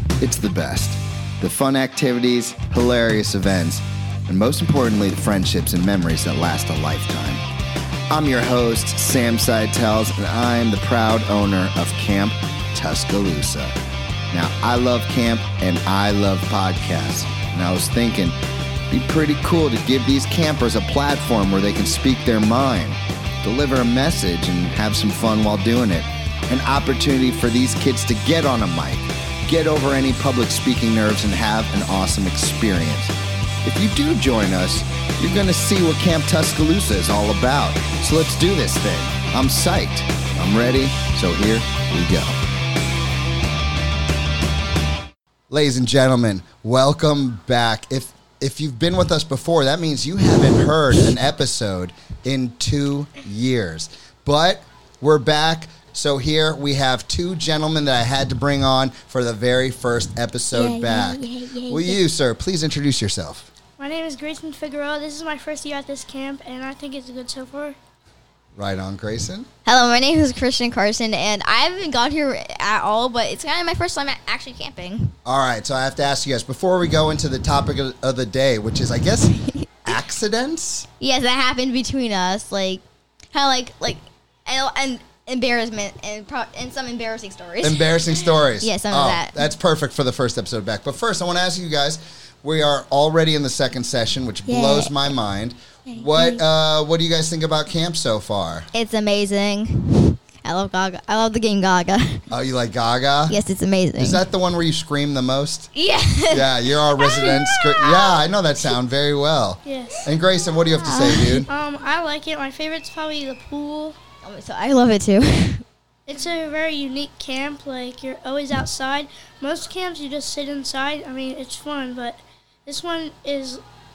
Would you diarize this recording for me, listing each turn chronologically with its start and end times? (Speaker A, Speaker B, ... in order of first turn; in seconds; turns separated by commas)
Speaker A: 0.2-7.4, Speaker A: 8.1-13.7, Speaker A: 14.3-18.4, Speaker A: 18.9-42.4, Speaker A: 45.5-63.5, Speaker B: 60.5-62.0, Speaker C: 63.8-67.8, Speaker A: 68.6-69.5, Speaker B: 69.7-75.2, Speaker A: 75.2-79.3, Speaker A: 79.8-80.9, Speaker B: 81.0-87.9, Speaker A: 87.6-98.7, Speaker B: 88.6-89.5, Speaker B: 94.5-95.2, Speaker B: 95.9-96.4, Speaker B: 98.7-102.2, Speaker A: 102.3-103.4, Speaker B: 103.3-104.2, Speaker A: 104.0-105.7, Speaker B: 105.8-108.2, Speaker A: 106.3-111.5, Speaker C: 109.7-110.0, Speaker B: 110.5-111.5, Speaker C: 111.5-114.0, Speaker B: 114.2-115.6, Speaker C: 116.1-123.6